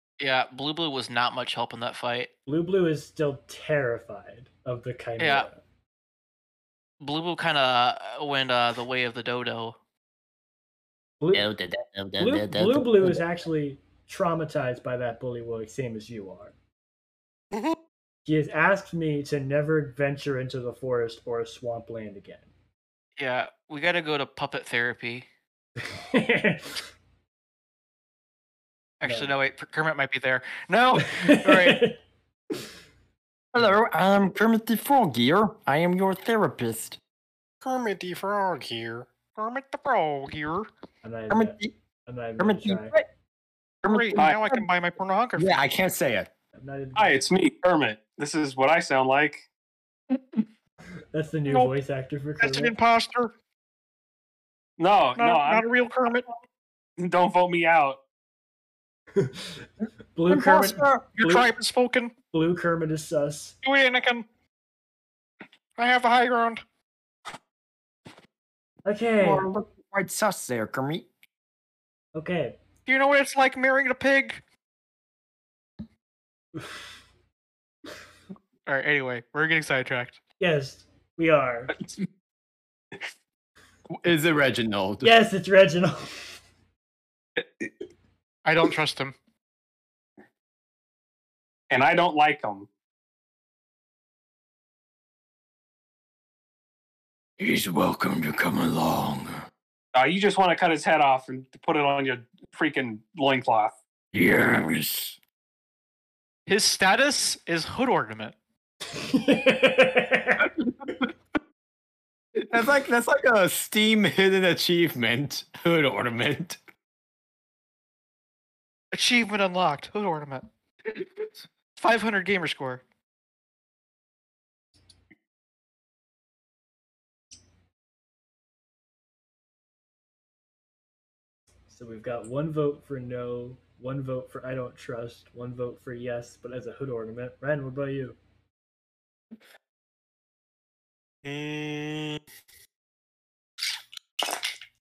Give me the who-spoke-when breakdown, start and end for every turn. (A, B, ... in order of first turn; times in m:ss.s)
0:00.2-0:02.3 A
0:02.5-0:05.6 B
0:05.2-0:05.5 A
0:07.0-0:09.8 A
0:11.2-0:11.5 B
0:11.3-0:13.2 C
0:12.2-0:16.5 B
0:18.2-0:22.5 B
0:23.2-0:25.2 A
0:25.8-0:26.8 B
0:29.0-0:31.8 A
0:29.0-0:29.3 B
0:31.0-0:32.0 B
0:33.5-0:37.0 C
0:37.6-0:39.1 D
0:39.3-0:40.7 A
0:41.0-0:43.0 B
0:41.3-0:41.7 C
0:42.4-0:43.0 C
0:43.8-0:44.6 C
0:43.8-0:45.5 A
0:44.2-0:44.4 E
0:45.4-0:46.3 C
0:46.5-0:47.2 B
0:47.0-0:49.4 E
0:51.1-0:52.7 B
0:52.4-0:53.3 A
0:54.8-0:55.6 E
0:55.2-0:56.2 A
0:57.0-0:58.0 E
0:59.2-1:01.5 B
1:00.3-1:01.0 C
1:01.2-1:02.1 A
1:02.3-1:03.6 B
1:03.6-1:04.2 A
1:05.8-1:06.6 A
1:08.8-1:09.4 B
1:09.2-1:11.1 C
1:12.1-1:12.6 B
1:12.8-1:14.4 A
1:16.6-1:16.8 B
1:18.6-1:20.2 A
1:20.4-1:21.7 B
1:23.9-1:25.1 C
1:25.0-1:26.4 B
1:27.4-1:27.6 E
1:28.4-1:29.1 A
1:31.7-1:32.7 E
1:37.4-1:39.3 C
1:39.9-1:43.7 E
1:44.1-1:45.0 C
1:46.4-1:48.3 A
1:48.9-1:50.5 B
1:52.4-1:56.6 C
1:58.9-2:00.4 A
2:01.8-2:02.8 A
2:11.7-2:18.2 B
2:21.2-2:22.2 D